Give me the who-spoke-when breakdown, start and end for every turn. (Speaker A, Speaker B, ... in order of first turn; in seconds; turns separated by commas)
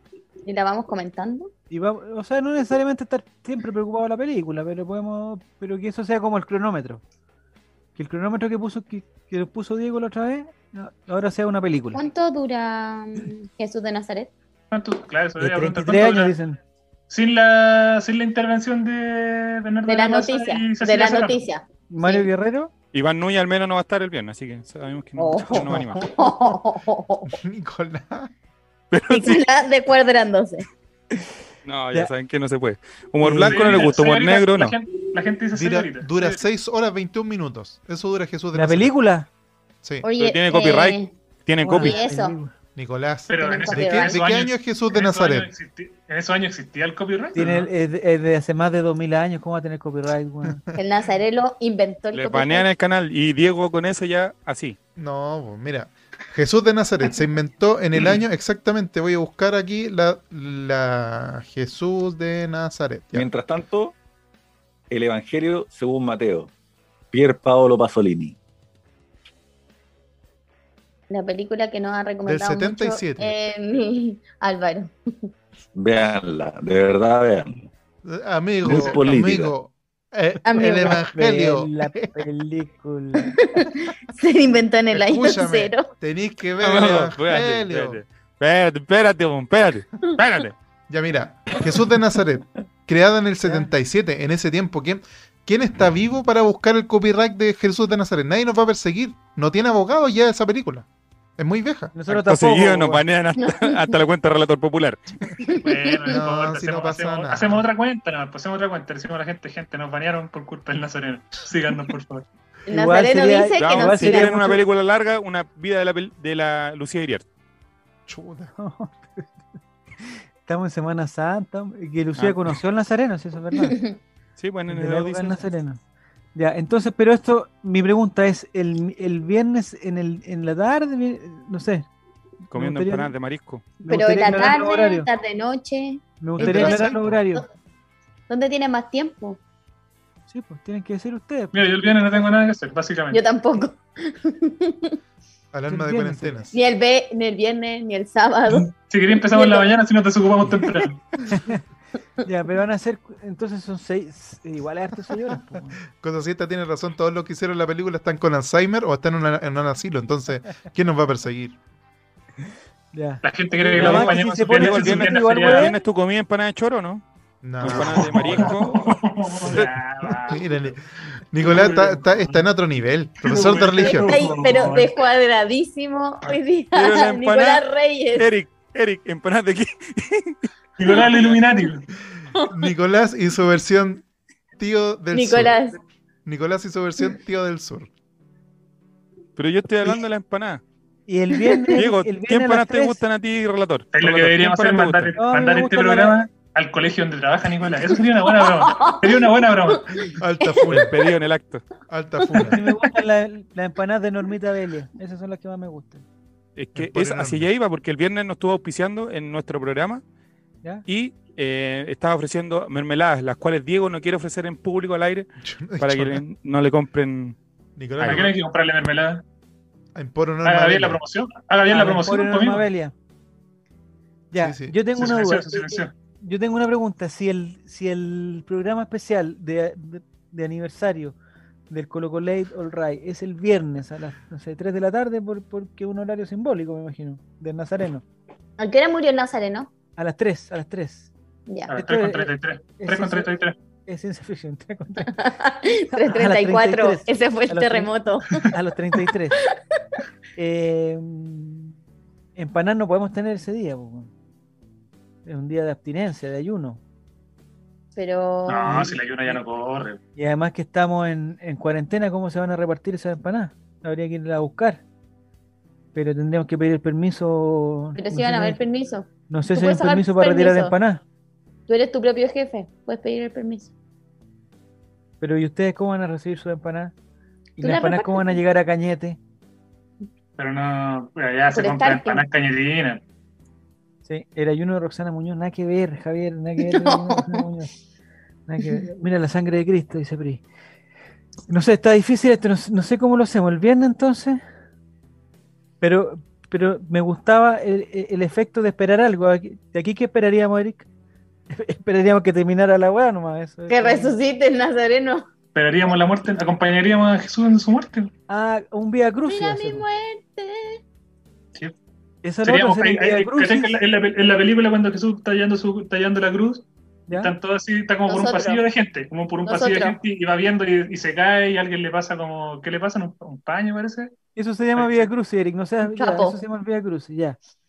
Speaker A: 0.5-1.5, Speaker B: 1.7-7.0, Speaker B: 8.0-12.0, Speaker A: 11.9-14.3, Speaker C: 14.7-16.4, Speaker B: 15.4-16.6, Speaker C: 17.1-21.4, Speaker A: 19.9-22.3, Speaker B: 21.9-22.7, Speaker D: 22.9-26.0, Speaker A: 25.2-27.3, Speaker B: 25.4-25.9, Speaker E: 27.3-28.3, Speaker D: 28.9-29.4, Speaker A: 29.1-30.7, Speaker D: 31.6-34.8, Speaker B: 33.2-33.9, Speaker C: 33.4-36.4, Speaker E: 35.5-38.9, Speaker B: 38.5-39.3, Speaker E: 39.8-40.1, Speaker A: 40.0-41.1, Speaker D: 40.2-42.0, Speaker B: 41.6-42.5, Speaker A: 41.8-42.4, Speaker E: 42.8-45.5, Speaker C: 43.3-47.7, Speaker A: 43.4-44.2, Speaker B: 47.4-50.6, Speaker E: 50.5-50.8, Speaker A: 50.8-52.7, Speaker D: 52.1-54.8, Speaker E: 55.0-63.3, Speaker F: 63.1-64.0, Speaker F: 64.9-66.5, Speaker F: 67.1-68.4, Speaker A: 71.1-75.3, Speaker E: 72.2-73.3, Speaker F: 75.8-77.6, Speaker E: 78.0-82.2, Speaker F: 78.6-79.5, Speaker A: 80.5-81.0, Speaker B: 80.8-83.4, Speaker A: 83.3-85.9, Speaker E: 84.9-88.0, Speaker D: 86.6-90.5, Speaker E: 90.9-102.0, Speaker B: 93.4-93.7, Speaker B: 101.9-103.0, Speaker D: 102.1-105.0, Speaker A: 103.4-104.0, Speaker A: 105.4-106.2, Speaker C: 105.6-112.2, Speaker E: 106.1-107.6, Speaker A: 112.7-114.5, Speaker B: 112.7-114.6, Speaker D: 113.6-117.2, Speaker E: 118.1-118.5, Speaker B: 118.6-119.4, Speaker B: 120.1-123.8, Speaker D: 122.2-122.5, Speaker A: 123.6-124.0, Speaker D: 124.4-125.4, Speaker B: 124.7-125.8, Speaker B: 126.3-131.9, Speaker B: 132.5-133.1, Speaker D: 132.5-133.7, Speaker A: 133.8-137.4, Speaker B: 133.8-135.1, Speaker B: 136.2-137.4, Speaker E: 136.4-137.2, Speaker A: 138.3-139.4, Speaker B: 140.3-142.2, Speaker C: 141.5-143.2, Speaker A: 143.1-145.0, Speaker E: 145.5-146.6, Speaker B: 145.7-146.5, Speaker A: 146.5-148.7, Speaker C: 148.5-151.0, Speaker A: 149.3-149.7, Speaker B: 151.3-151.6, Speaker B: 152.2-155.8, Speaker E: 155.9-161.6, Speaker B: 162.9-165.8, Speaker C: 163.2-165.7, Speaker D: 163.8-167.0, Speaker E: 167.4-168.6, Speaker D: 167.6-168.8, Speaker C: 167.6-170.7, Speaker E: 169.5-174.2, Speaker C: 171.4-172.4, Speaker C: 173.2-174.9, Speaker A: 173.8-178.3, Speaker D: 176.7-180.4, Speaker C: 180.8-181.9, Speaker E: 182.3-184.1, Speaker E: 184.6-185.6, Speaker A: 185.1-185.8, Speaker E: 186.2-187.9, Speaker D: 189.4-190.6, Speaker B: 191.1-193.0, Speaker A: 191.4-191.7, Speaker D: 191.8-195.2, Speaker C: 193.9-199.9, Speaker B: 195.2-196.2, Speaker A: 198.3-200.7, Speaker E: 200.2-201.0, Speaker D: 200.7-201.7, Speaker E: 201.9-202.6, Speaker A: 202.4-202.7, Speaker B: 202.5-206.0, Speaker D: 206.6-210.0, Speaker E: 206.8-207.5, Speaker D: 210.9-215.3, Speaker E: 215.4-216.2, Speaker D: 215.8-217.4, Speaker E: 217.8-218.3, Speaker D: 218.0-218.3, Speaker C: 218.0-219.2, Speaker E: 219.9-221.0, Speaker C: 220.4-222.7, Speaker B: 221.7-222.9, Speaker B: 224.3-231.2, Speaker E: 224.4-224.8, Speaker C: 224.9-225.9, Speaker B: 231.7-238.1, Speaker A: 238.6-239.7, Speaker B: 240.0-241.1, Speaker A: 241.5-241.7, Speaker C: 241.7-243.6, Speaker B: 241.7-243.3, Speaker B: 243.9-245.2, Speaker A: 245.1-248.5, Speaker B: 246.0-249.4, Speaker B: 250.4-251.8, Speaker B: 252.4-254.1, Speaker B: 255.2-256.8, Speaker A: 258.0-258.9, Speaker C: 258.5-260.0, Speaker B: 258.7-259.4, Speaker B: 260.2-264.8, Speaker B: 265.9-268.6, Speaker A: 268.0-270.8, Speaker B: 269.3-271.0, Speaker A: 271.7-273.7, Speaker B: 275.2-276.9, Speaker A: 277.6-278.4, Speaker B: 277.6-279.2, Speaker C: 280.4-283.0, Speaker A: 281.6-282.2, Speaker B: 284.1-287.7, Speaker A: 286.6-287.5, Speaker B: 288.5-290.4, Speaker B: 291.5-294.4, Speaker B: 295.8-300.9, Speaker B: 301.5-304.2, Speaker A: 303.7-305.3, Speaker C: 305.6-308.1, Speaker B: 308.3-309.8, Speaker A: 309.3-310.8, Speaker B: 312.2-313.8, Speaker C: 312.4-316.7, Speaker B: 317.1-317.3, Speaker C: 317.2-324.1, Speaker A: 318.1-318.6, Speaker A: 319.4-320.0, Speaker B: 324.4-327.4, Speaker C: 324.8-325.1, Speaker A: 325.8-326.4